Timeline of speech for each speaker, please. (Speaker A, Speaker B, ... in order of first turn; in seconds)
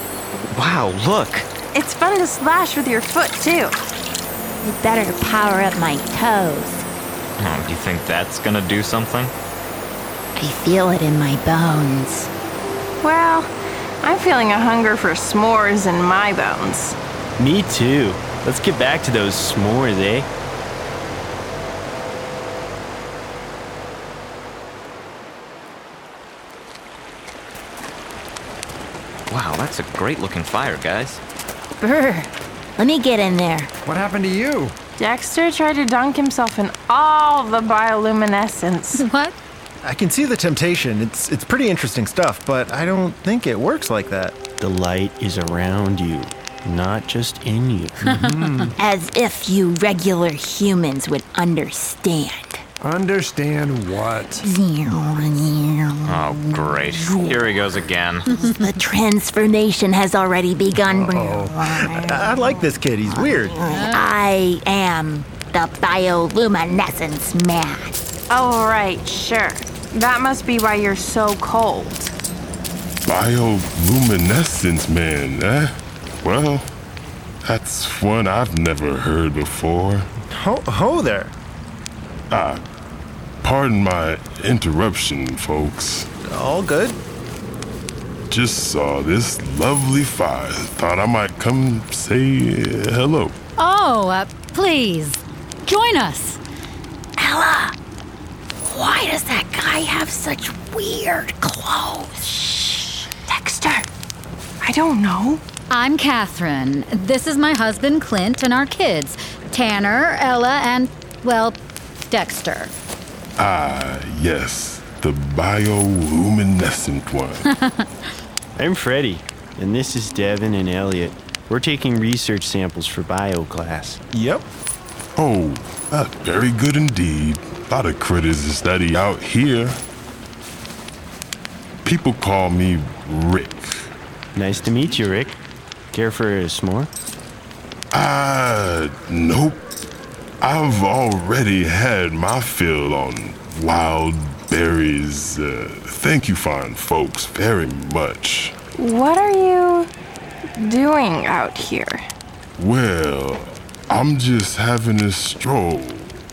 Speaker A: 0.5-1.5, 7.4-9.3, 29.3-31.2, 56.1-58.4
Speaker B: 1.7-3.8, 13.0-17.0, 35.0-39.0, 68.3-72.1, 103.3-103.9, 104.6-105.4, 148.8-149.9, 150.6-152.0
Speaker C: 4.6-6.9, 10.4-12.3, 31.8-33.7, 48.8-52.6, 54.4-68.2, 97.2-97.8, 98.6-103.1
Speaker D: 17.4-20.3, 44.6-48.0, 118.6-124.2, 134.4-135.4, 135.9-136.9
Speaker E: 33.9-34.8, 48.0-48.8, 52.8-54.5, 61.0-61.6
Speaker F: 39.0-39.4, 48.1-48.7, 63.7-64.1, 93.6-96.4, 105.7-112.7, 117.5-117.9
Speaker G: 39.8-44.4, 61.7-63.6, 80.3-81.3, 86.2-87.0, 124.1-124.4
Speaker H: 73.1-76.7, 77.4-80.1, 82.3-82.6, 83.4-86.1, 88.3-93.4, 113.4-117.5, 125.2-129.8, 131.8-133.9, 137.9-139.6, 140.4-148.6, 152.6-156.2